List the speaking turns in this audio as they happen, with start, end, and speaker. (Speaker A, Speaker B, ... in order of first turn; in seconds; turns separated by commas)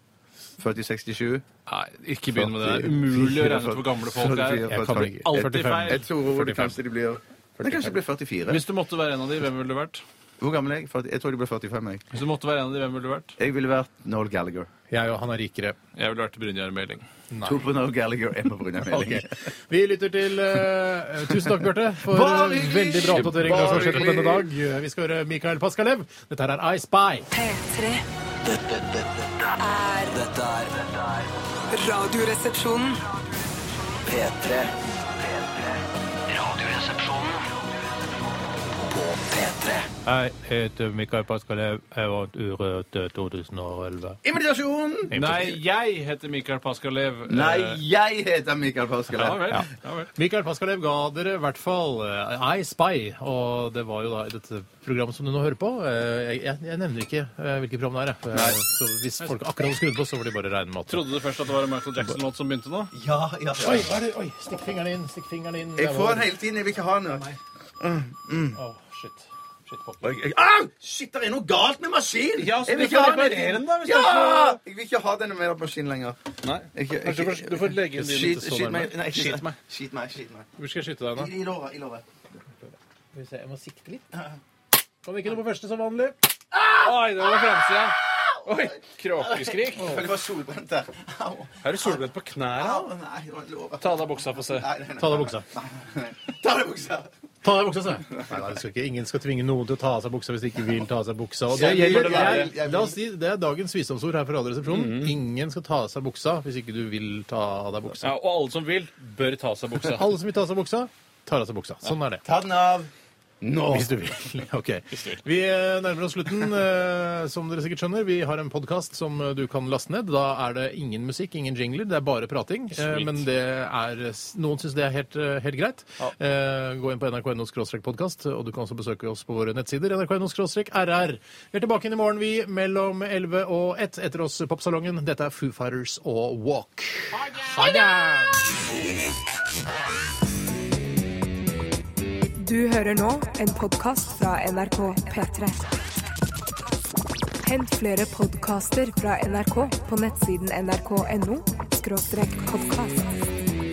Speaker A: 0.6-1.4, Speaker B: 1.7-6.8, Speaker A: 2.4-8.6, Speaker C: 4.7-6.0, Speaker B: 8.5-10.0, Speaker A: 10.4-12.0, Speaker B: 12.1-13.4, Speaker A: 13.4-14.7, Speaker C: 14.9-15.8, Speaker B: 16.0-17.1, Speaker C: 17.3-17.7, Speaker A: 17.4-19.3, Speaker C: 18.9-27.3, Speaker A: 22.0-24.5, Speaker B: 23.1-24.1, Speaker D: 27.3-28.1, Speaker E: 28.5-31.4, Speaker D: 29.6-30.1, Speaker D: 31.7-33.0, Speaker E: 34.0-37.6, Speaker E: 38.7-39.9, Speaker C: 40.0-44.2, Speaker A: 44.2-45.4, Speaker C: 45.1-45.5, Speaker B: 45.1-47.8, Speaker A: 47.3-49.7, Speaker B: 49.1-50.1, Speaker C: 49.5-61.0, Speaker A: 58.3-58.6, Speaker B: 60.9-62.9, Speaker A: 62.9-64.0, Speaker C: 63.6-66.3, Speaker A: 65.8-67.3, Speaker A: 67.8-68.6, Speaker C: 68.5-70.2, Speaker A: 70.0-76.2, Speaker B: 72.4-74.6, Speaker B: 76.4-79.6, Speaker A: 76.7-80.5, Speaker C: 77.1-78.9, Speaker C: 80.6-81.3, Speaker A: 81.2-82.0, Speaker C: 82.6-84.0, Speaker C: 85.0-86.2, Speaker B: 86.7-90.1, Speaker A: 89.2-92.0, Speaker B: 91.6-92.9, Speaker A: 92.5-97.1, Speaker B: 93.8-94.7, Speaker C: 95.0-95.5, Speaker C: 97.4-108.1, Speaker A: 98.1-98.5, Speaker A: 101.5-103.0, Speaker B: 101.5-102.5, Speaker B: 104.7-105.2, Speaker B: 108.0-110.1, Speaker C: 109.8-112.2, Speaker A: 112.2-112.9, Speaker A: 113.4-113.9, Speaker C: 113.7-138.5, Speaker B: 114.9-115.2, Speaker B: 122.7-123.2, Speaker D: 142.4-145.7, Speaker D: 147.4-153.1